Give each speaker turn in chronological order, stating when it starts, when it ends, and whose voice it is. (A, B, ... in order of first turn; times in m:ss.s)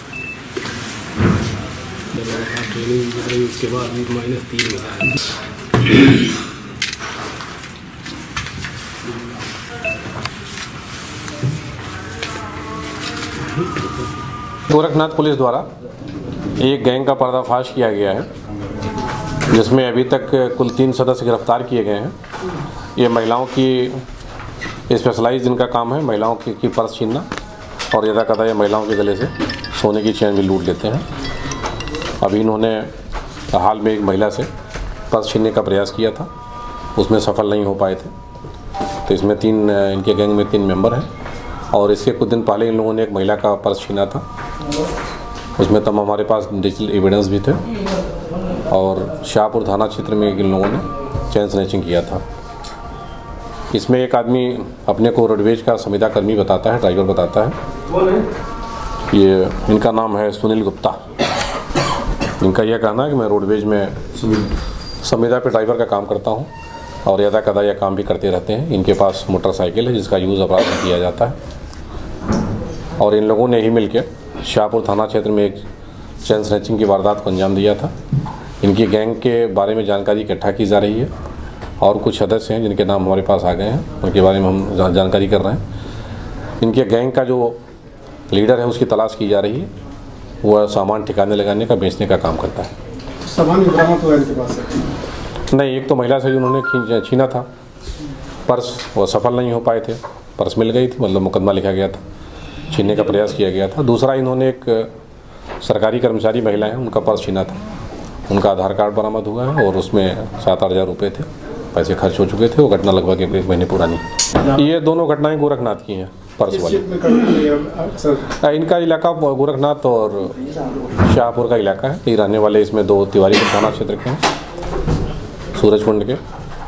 0:02.1-0:05.2 A
0:14.7-0:15.7 B
0:16.6-0:18.3 B
0:19.5-0:22.1 B
0:23.0-0:24.0 B
0:24.9-0:27.2 B
0:27.9-0:31.0 B
0:32.2-0:32.9 B
0:33.5-0:34.5 B
0:35.1-0:36.3 B
0:37.0-0:38.1 B
0:39.0-0:41.1 B
0:41.7-0:44.2 B
0:45.6-0:47.6 B
0:48.7-0:52.2 B
0:53.7-0:57.6 B
0:59.1-1:01.0 B
1:02.4-1:04.4 B
1:05.0-1:06.5 B
1:07.0-1:11.4 B
1:13.0-1:15.6 B
1:16.2-1:17.9 B
1:18.6-1:21.1 B
1:21.8-1:25.6 B
1:26.6-1:27.6 B
1:28.3-1:29.7 B
1:30.4-1:32.7 B
1:33.2-1:34.9 C
1:35.5-1:37.5 B
1:38.5-1:42.0 B
1:42.7-1:44.9 B
1:45.6-1:47.6 B
1:48.3-1:56.8 B
1:56.4-1:58.3 C
1:58.4-2:00.4 B
2:01.0-2:04.2 B
2:05.5-2:06.2 B